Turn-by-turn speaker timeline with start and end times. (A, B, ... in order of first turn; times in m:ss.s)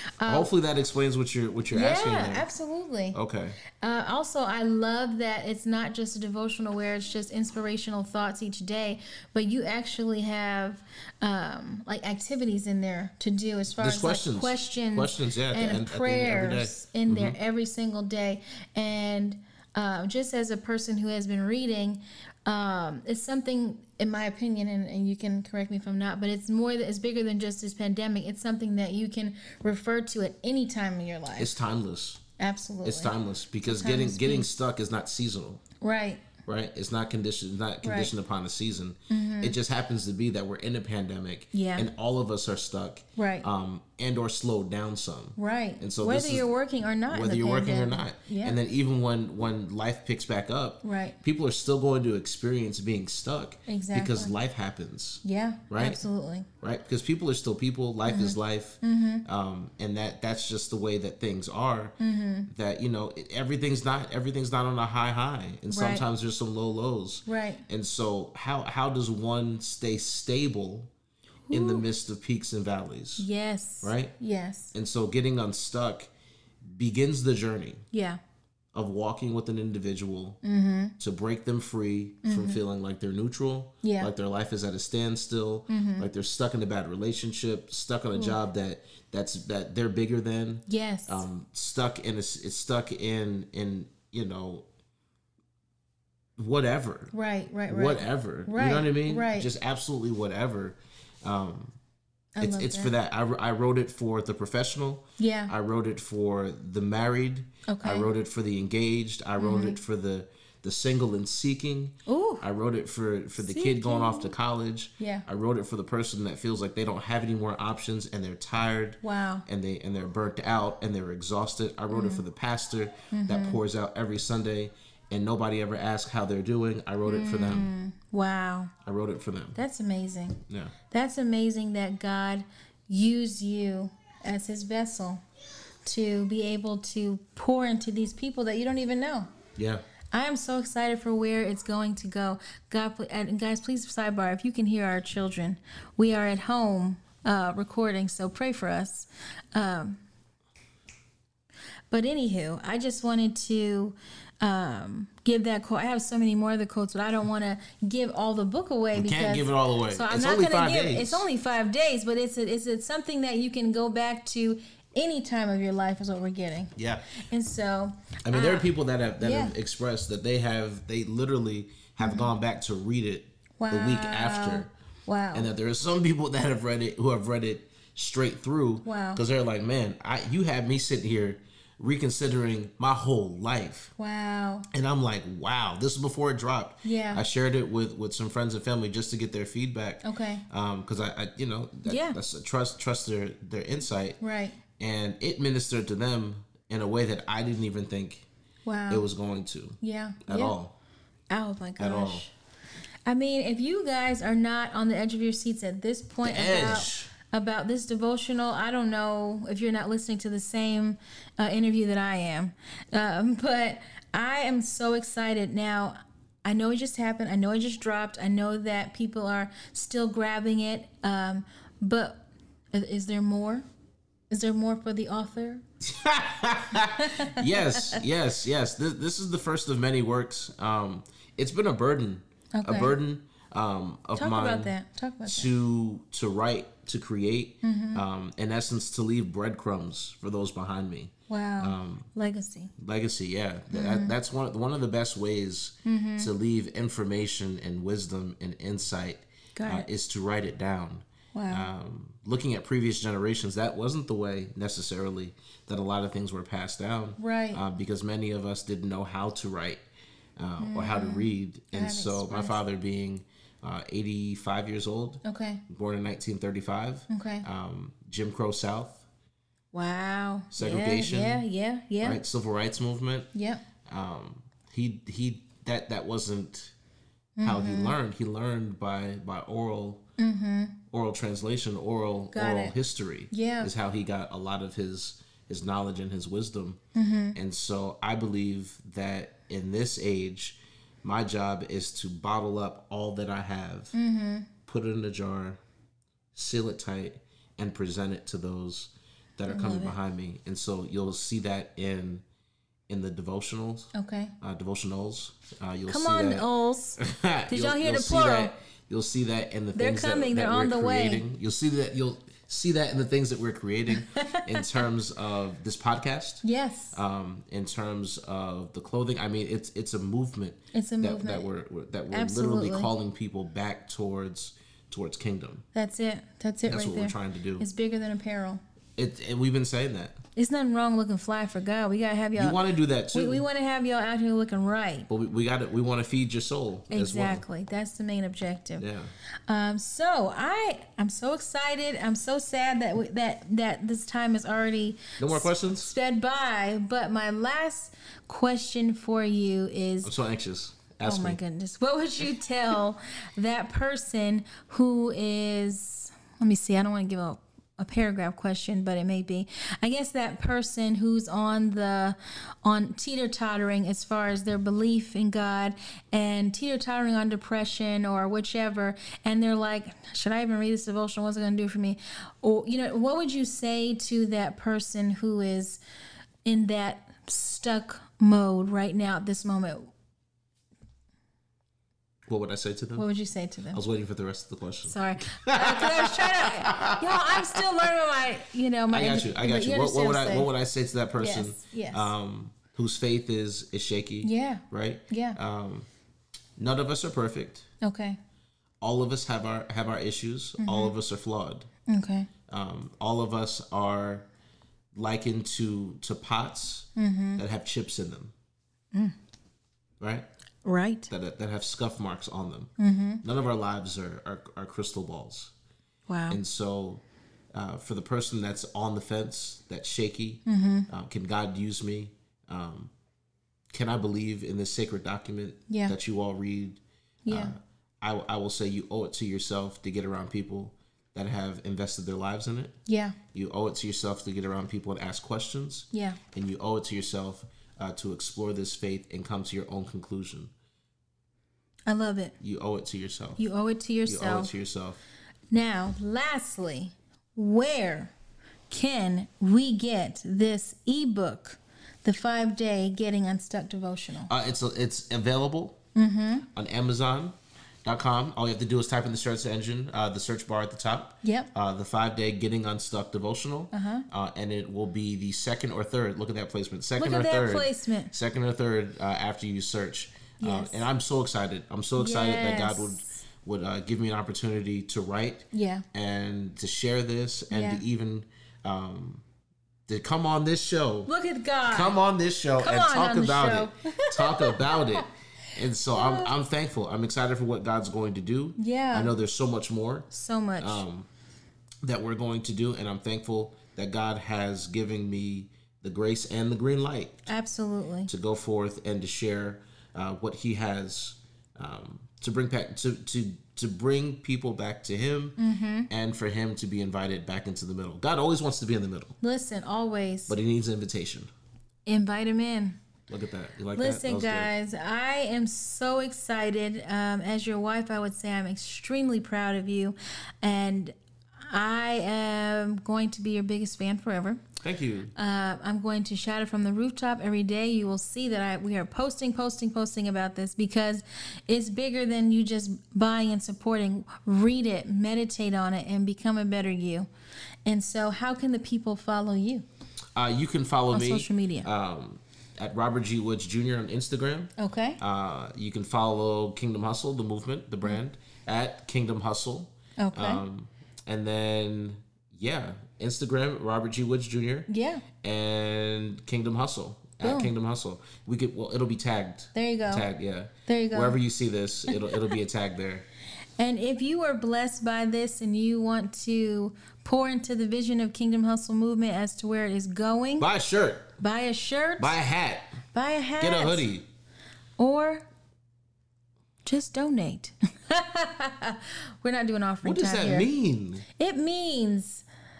0:00.2-0:00.5 A
0:00.2-0:02.5 B
0:01.7-0:03.2 A
0:03.1-0:03.6 B
0:03.7-0:31.5 A
0:13.8-0:17.4 B
0:31.4-0:32.2 B
0:32.4-0:33.1 A
0:32.8-0:35.6 B
0:33.6-0:34.5 A
0:35.8-0:36.2 A
0:36.4-0:46.5 B
0:37.8-0:38.1 A
0:39.1-0:39.5 A
0:41.5-0:41.9 A
0:43.2-0:43.5 A
0:45.4-0:48.6 A
0:47.1-0:56.0 B
0:50.8-0:51.2 A
0:53.7-0:54.3 A
0:55.2-0:56.5 A
0:56.6-1:02.0 B
0:58.0-0:59.2 A
1:02.0-1:02.5 A
1:02.5-1:10.9 B
1:05.7-1:06.0 A
1:07.2-1:07.6 A
1:11.5-1:11.8 A
1:11.5-1:13.3 B
1:13.2-1:14.7 A
1:13.8-1:14.1 B
1:14.7-1:16.1 B
1:16.7-1:17.8 B
1:17.9-1:18.2 A
1:18.7-1:20.4 B
1:20.4-1:21.0 A
1:21.0-1:34.6 B
1:22.2-1:22.6 A
1:23.8-1:24.1 A
1:25.7-1:26.1 A
1:30.7-1:31.2 A
1:36.4-1:37.1 B
1:37.1-1:39.5 A
1:37.7-1:41.8 B
1:42.4-1:42.9 A
1:42.4-2:07.7 B
1:45.2-1:45.5 A
1:47.7-1:48.1 A
1:49.4-1:49.8 A
1:52.0-1:52.4 A
1:53.4-1:54.3 A
1:55.0-1:55.2 A
1:59.0-1:59.4 A
2:01.9-2:02.2 A
2:03.1-2:03.6 A
2:07.0-2:08.7 A
2:08.8-2:09.6 B
2:09.5-2:15.2 A
2:10.5-2:10.7 B
2:15.8-2:19.3 A
2:19.6-2:19.8 B
2:20.1-2:30.0 A
2:31.9-2:49.5 A
2:38.9-2:41.2 B
2:46.8-2:47.0 B
2:48.2-2:54.7 B
2:52.0-2:52.3 A
2:53.6-2:55.5 A
2:55.3-3:03.9 B
2:58.8-2:59.2 A
3:04.0-3:04.7 A
3:04.7-3:14.2 B
3:06.8-3:07.2 A
3:10.0-3:10.4 A
3:11.8-3:12.2 A
3:14.2-3:14.6 A
3:14.8-3:18.3 B
3:18.6-3:19.0 A
3:18.9-3:20.7 B
3:19.8-3:20.5 A
3:21.3-3:22.3 A
3:21.8-3:22.2 B
3:23.0-3:43.6 A
3:26.2-3:27.1 B
3:44.3-3:45.6 A
3:45.8-4:02.1 B
3:46.9-3:48.0 A
3:52.5-3:52.9 A
3:54.2-3:55.5 A
3:57.6-3:58.0 A
4:01.3-4:02.7 A
4:02.8-4:19.8 B
4:03.7-4:04.2 A
4:05.8-4:06.3 A
4:09.6-4:09.9 A
4:11.3-4:11.7 A
4:17.2-4:17.6 A
4:20.4-4:29.0 B
4:20.6-4:22.6 A
4:25.2-4:25.6 A
4:27.1-4:27.4 A
4:29.7-4:32.2 A
4:30.5-4:31.4 B
4:32.0-4:33.3 B
4:33.3-4:33.6 A
4:33.8-4:36.7 B
4:37.4-4:38.0 A
4:37.4-4:40.0 B
4:40.2-4:40.8 A
4:40.9-4:46.8 B
4:42.3-4:42.7 A
4:43.3-4:43.7 A
4:46.9-4:47.4 A
4:47.3-4:53.9 B
4:53.9-4:54.5 A
4:54.6-4:55.6 B
4:56.3-5:02.2 B
4:59.5-5:00.0 A
5:02.9-5:06.4 B
5:03.9-5:04.3 A
5:05.9-5:08.5 A
5:07.0-5:25.6 B
5:09.7-5:11.2 A
5:13.9-5:14.8 A
5:16.4-5:17.0 A
5:20.7-5:21.5 A
5:22.1-5:22.9 A
5:25.7-5:28.6 A
5:26.6-5:27.6 B
5:29.0-5:30.2 B
5:30.4-5:32.6 A
5:32.4-5:33.4 B
5:33.1-5:35.1 A
5:35.1-5:37.4 B
5:36.9-5:38.9 A
5:38.8-5:39.1 B
5:39.5-5:50.1 A
5:45.2-5:45.9 B
5:50.0-5:51.4 B
5:51.0-6:15.8 A
6:16.4-6:19.9 A
6:22.3-6:23.1 B
6:23.0-6:23.8 A
6:23.7-6:27.9 B
6:24.8-6:30.5 A
6:28.9-6:35.9 B
6:31.2-6:32.1 A
6:34.2-6:35.4 A
6:36.6-6:37.7 B
6:37.8-6:38.2 A
6:38.8-6:41.7 B
6:40.6-6:40.9 A
6:41.9-6:42.3 A
6:42.5-6:44.3 B
6:44.9-6:48.3 B
6:47.0-6:47.4 A
6:50.0-6:50.2 B
6:50.6-6:51.1 A
6:51.1-6:55.5 B
6:52.8-6:53.2 A
6:56.1-6:56.4 A
6:56.3-7:02.9 B
7:00.4-7:00.9 A
7:03.7-7:12.8 B
7:05.7-7:05.9 A
7:07.2-7:07.5 A
7:12.8-7:13.2 A
7:13.3-7:20.5 B
7:15.9-7:16.2 A
7:21.9-7:22.3 A
7:22.4-7:23.4 B
7:23.4-7:24.5 A
7:24.0-7:25.0 B
7:25.5-7:28.1 A
7:28.7-7:34.3 A
7:34.3-7:35.8 B
7:35.9-7:36.5 A
7:36.5-7:59.2 B
7:41.2-7:41.5 A
7:43.7-7:44.1 A
7:47.0-7:48.1 A
7:50.4-7:50.9 A
7:52.0-7:53.2 A
7:55.5-7:55.8 A
7:57.5-7:57.8 A
7:59.9-8:01.1 B
8:01.0-8:02.0 A
8:01.6-8:10.1 B
8:02.6-8:05.1 A
8:05.9-8:06.3 A
8:08.6-8:09.1 A
8:10.1-8:10.8 A
8:10.6-8:11.1 B
8:11.8-8:17.3 B
8:17.3-8:18.1 A
8:18.1-8:25.4 B
8:25.4-8:25.9 A
8:25.9-8:29.2 B
8:29.2-8:30.4 A
8:30.3-8:31.3 B
8:31.9-8:32.8 A
8:33.1-8:34.5 B
8:33.8-8:41.0 A
8:41.5-8:44.4 A
8:44.6-8:45.1 B
8:45.1-8:57.1 A
8:57.6-8:59.6 A
9:00.2-9:14.7 B
9:00.9-9:01.7 A
9:04.6-9:05.0 A
9:10.0-9:10.4 A
9:14.7-9:15.0 A
9:15.2-9:23.0 B
9:17.2-9:17.5 A
9:19.5-9:20.1 A
9:20.7-9:21.2 A
9:21.9-9:22.3 A
9:23.6-9:30.5 A
9:30.4-9:31.1 B
9:31.2-9:32.2 A
9:32.0-9:32.7 B
9:32.9-9:33.8 A
9:33.4-9:34.0 B
9:34.8-9:35.2 A
9:36.6-9:40.5 A
9:39.8-9:41.0 B
9:41.1-9:42.2 A